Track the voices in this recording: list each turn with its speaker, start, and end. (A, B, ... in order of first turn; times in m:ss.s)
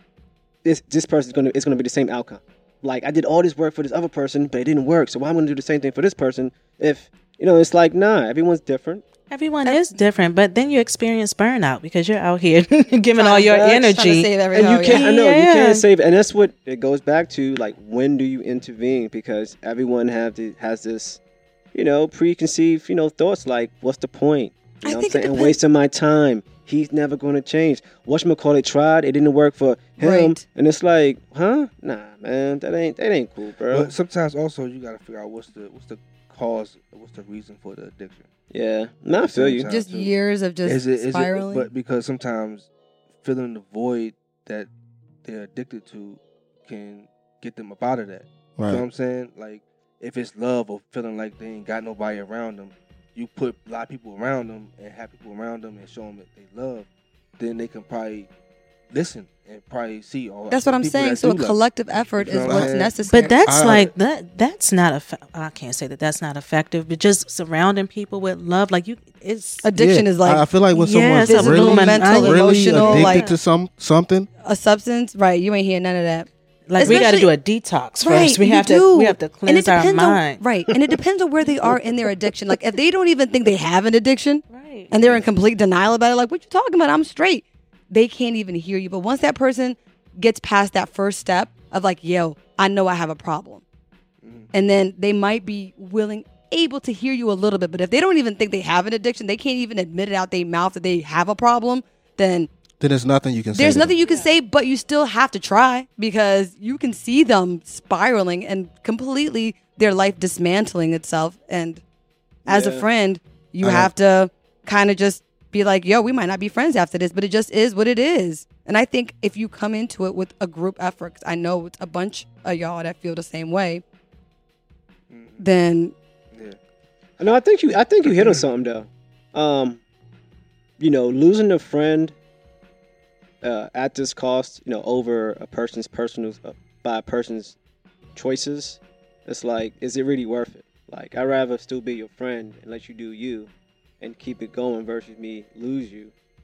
0:00.6-0:09.1 A
0:09.3-0:15.8 B
0:09.6-0:10.1 C
0:13.2-0:15.1 C
0:13.5-0:13.9 A
0:14.5-0:21.2 A
0:21.7-0:33.9 A
0:24.8-0:25.6 C
0:30.0-0:30.4 C
0:33.7-0:38.3 D
0:38.5-0:39.7 A
0:39.2-0:40.1 D
0:39.7-0:41.7 C
0:40.6-0:42.7 D
0:43.2-0:44.7 D
0:45.2-0:56.9 D
0:48.6-0:48.8 E
0:57.4-0:58.3 D
0:58.9-1:01.6 D
1:00.5-1:03.4 C
1:02.2-1:03.9 D
1:02.4-1:02.7 E
1:03.0-1:09.7 B
1:03.5-1:03.9 E
1:09.6-1:10.5 C
1:09.8-1:14.3 E
1:10.7-1:13.4 B
1:11.2-1:13.3 C
1:14.4-1:17.3 C
1:16.7-1:20.4 B
1:18.0-1:33.6 C
1:24.5-1:24.9 B
1:24.9-1:25.2 D
1:34.2-1:34.5 D
1:34.5-1:42.5 C
1:42.8-1:44.0 E
1:43.5-1:51.8 C
1:52.5-1:52.9 A
1:52.5-2:03.8 C
1:53.6-1:53.9 E
2:05.1-2:05.4 D
2:05.4-2:05.9 C
2:07.2-2:09.8 A
2:08.0-2:08.4 D
2:10.8-2:12.2 A
2:13.4-2:17.6 A
2:18.2-2:26.1 A